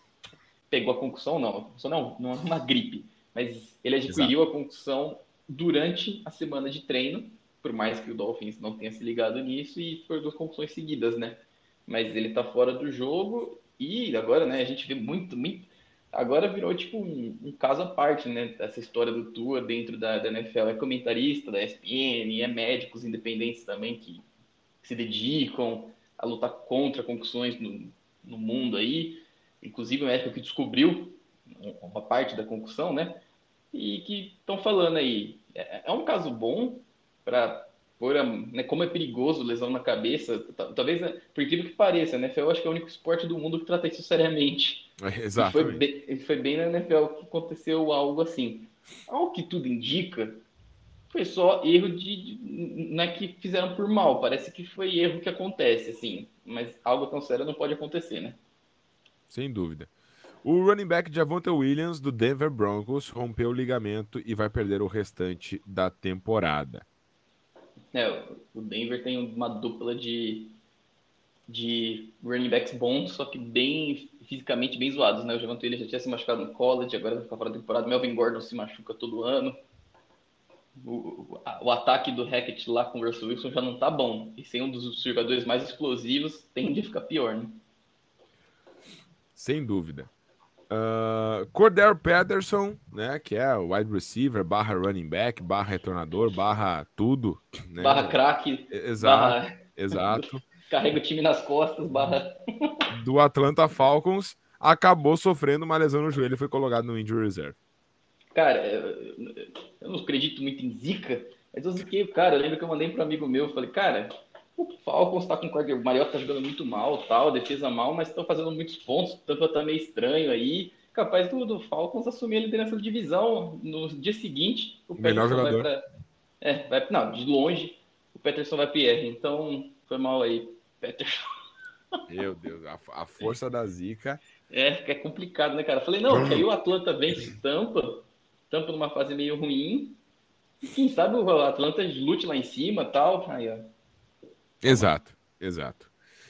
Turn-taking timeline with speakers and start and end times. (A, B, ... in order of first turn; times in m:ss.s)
0:00.7-0:24.2 A
0:24.8-0:33.2 A
0:33.7-0:50.4 A
0:45.0-0:45.8 B
0:51.1-0:58.4 A
0:59.3-0:59.9 B
1:00.4-1:06.8 B
1:07.9-1:10.5 A
1:11.5-1:19.6 A
1:20.8-1:27.6 A
1:29.4-1:30.1 B
1:30.7-1:38.2 B
1:37.8-1:42.8 A
1:38.7-1:40.4 B
1:42.9-1:47.6 B
1:48.3-2:05.8 A
2:05.0-2:05.7 B
2:06.4-2:11.2 A
2:12.1-2:14.2 B
2:14.5-2:20.0 A
2:16.1-2:16.4 B
2:20.7-2:23.7 A
2:24.6-2:25.9 B
2:24.6-2:24.9 A